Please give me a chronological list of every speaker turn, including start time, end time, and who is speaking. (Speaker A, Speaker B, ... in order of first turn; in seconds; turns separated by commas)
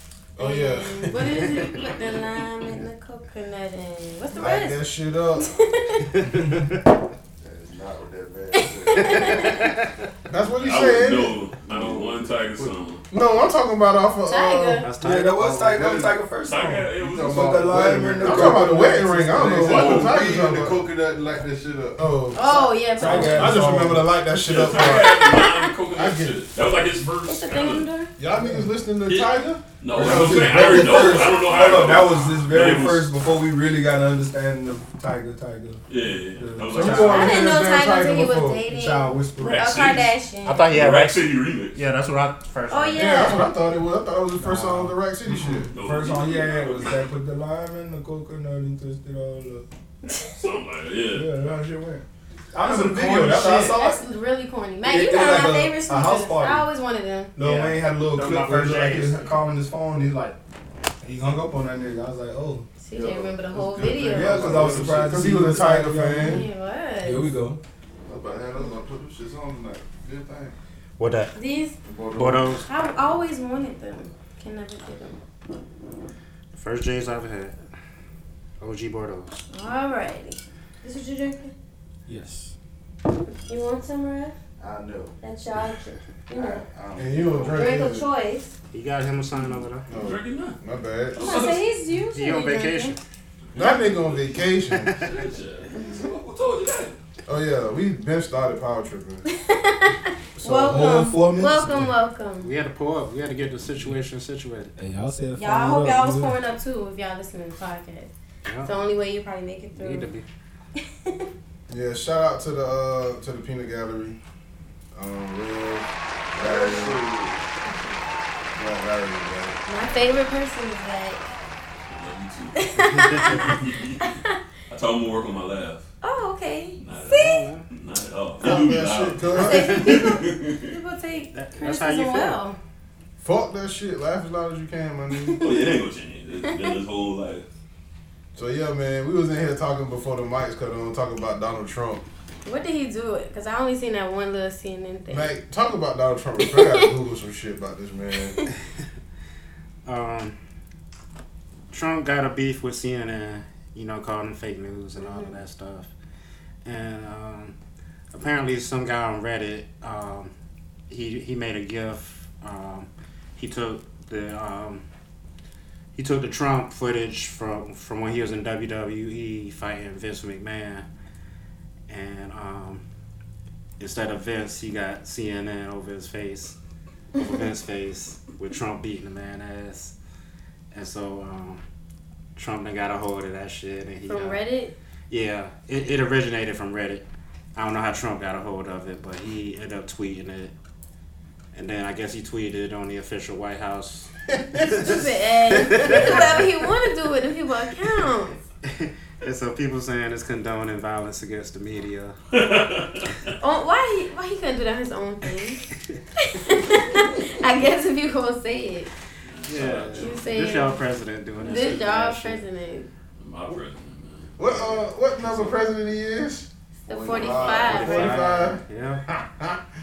Speaker A: 0.4-1.7, Speaker B: 0.4-4.8, Speaker A: 4.3-5.6, Speaker B: 5.4-6.1, Speaker C: 6.2-6.8, Speaker D: 7.4-9.4, Speaker B: 8.5-9.7, Speaker C: 9.0-9.9, Speaker A: 10.3-11.4, Speaker E: 10.6-13.0, Speaker A: 13.1-14.8, Speaker B: 14.3-14.9, Speaker C: 14.8-15.7, Speaker F: 15.0-19.6, Speaker D: 15.5-16.2, Speaker E: 16.4-18.0, Speaker D: 17.0-22.0, Speaker A: 18.2-20.9, Speaker E: 19.7-20.1, Speaker A: 22.0-25.2, Speaker B: 22.3-23.6, Speaker F: 23.0-24.1, Speaker E: 24.4-27.9, Speaker B: 24.9-25.7, Speaker A: 25.9-26.4, Speaker B: 27.2-28.1, Speaker A: 28.2-31.3, Speaker F: 28.3-28.7, Speaker E: 29.1-33.1, Speaker F: 29.9-37.4, Speaker B: 30.9-31.9, Speaker E: 35.9-37.3, Speaker A: 36.7-38.6, Speaker B: 37.0-40.6, Speaker F: 38.7-39.8, Speaker E: 39.4-40.1, Speaker C: 40.5-43.4, Speaker E: 40.7-41.8, Speaker B: 42.7-43.5, Speaker A: 42.9-45.7, Speaker C: 44.5-44.9, Speaker F: 45.3-49.7, Speaker E: 45.7-47.1, Speaker E: 50.4-51.3, Speaker F: 51.1-54.0, Speaker A: 52.6-53.8, Speaker B: 53.7-57.4, Speaker F: 54.8-56.7, Speaker F: 57.4-60.4, Speaker C: 57.4-57.8, Speaker D: 58.1-59.3, Speaker F: 61.0-62.7, Speaker B: 62.8-64.7, Speaker D: 62.9-65.1, Speaker F: 64.0-66.4, Speaker A: 64.7-66.5, Speaker B: 66.2-67.3, Speaker F: 67.0-67.6, Speaker D: 68.1-70.5, Speaker C: 71.0-71.3, Speaker B: 71.3-71.8, Speaker D: 71.8-72.5, Speaker C: 72.2-72.6, Speaker B: 72.6-75.2, Speaker C: 76.5-77.5, Speaker C: 78.6-79.4, Speaker B: 79.5-81.5, Speaker F: 82.1-82.5, Speaker B: 83.5-84.3, Speaker D: 84.6-85.2, Speaker B: 85.2-86.7, Speaker D: 86.3-87.7, Speaker A: 87.0-88.1, Speaker B: 87.5-88.5, Speaker C: 88.7-89.8, Speaker E: 89.9-90.6, Speaker A: 89.9-91.4, Speaker E: 91.1-91.7, Speaker B: 91.2-93.0, Speaker C: 92.1-93.0, Speaker E: 93.5-97.0, Speaker A: 93.5-95.0, Speaker B: 95.7-96.2, Speaker A: 97.3-99.3, Speaker B: 99.3-102.5, Speaker F: 100.4-101.9, Speaker A: 100.6-101.1, Speaker C: 102.4-104.7, Speaker F: 104.8-106.4, Speaker B: 105.3-108.1, Speaker C: 108.5-108.7, Speaker B: 108.6-110.1, Speaker C: 109.8-110.2, Speaker A: 111.7-114.2, Speaker A: 114.9-117.0, Speaker D: 116.3-117.4, Speaker B: 117.7-118.0, Speaker A: 118.6-119.6, Speaker B: 119.7-121.2, Speaker E: 121.9-122.7, Speaker B: 122.5-124.4, Speaker E: 123.2-124.1, Speaker E: 124.7-125.9, Speaker B: 126.0-127.5, Speaker E: 126.8-130.8, Speaker C: 127.0-127.7, Speaker A: 128.4-129.9, Speaker B: 129.3-132.6, Speaker C: 131.3-132.4, Speaker A: 133.2-135.4, Speaker B: 135.2-135.6, Speaker E: 135.4-137.5, Speaker A: 138.3-142.1, Speaker B: 142.4-145.4, Speaker A: 145.1-148.4, Speaker B: 146.5-146.9, Speaker C: 149.9-150.4, Speaker C: 151.7-155.9, Speaker B: 155.0-155.3, Speaker C: 156.7-157.6, Speaker C: 158.1-160.3, Speaker C: 160.9-164.8, Speaker C: 165.9-170.9, Speaker C: 171.9-172.8, Speaker C: 173.8-176.6, Speaker C: 177.2-179.9, Speaker C: 180.7-181.6, Speaker C: 182.4-184.4, Speaker B: 184.1-184.7, Speaker C: 185.1-190.5, Speaker C: 191.5-194.1, Speaker A: 194.3-195.1, Speaker B: 194.6-198.4, Speaker C: 195.6-196.4, Speaker A: 195.8-196.4, Speaker C: 198.7-202.2, Speaker E: 202.3-203.3, Speaker B: 203.4-205.6, Speaker B: 206.2-208.9, Speaker E: 209.3-210.2, Speaker C: 209.5-212.4, Speaker B: 210.0-210.8, Speaker B: 211.4-212.9, Speaker E: 213.2-214.8, Speaker A: 214.4-219.6, Speaker C: 215.2-215.5, Speaker B: 216.9-218.3, Speaker D: 216.9-217.8, Speaker C: 217.6-219.0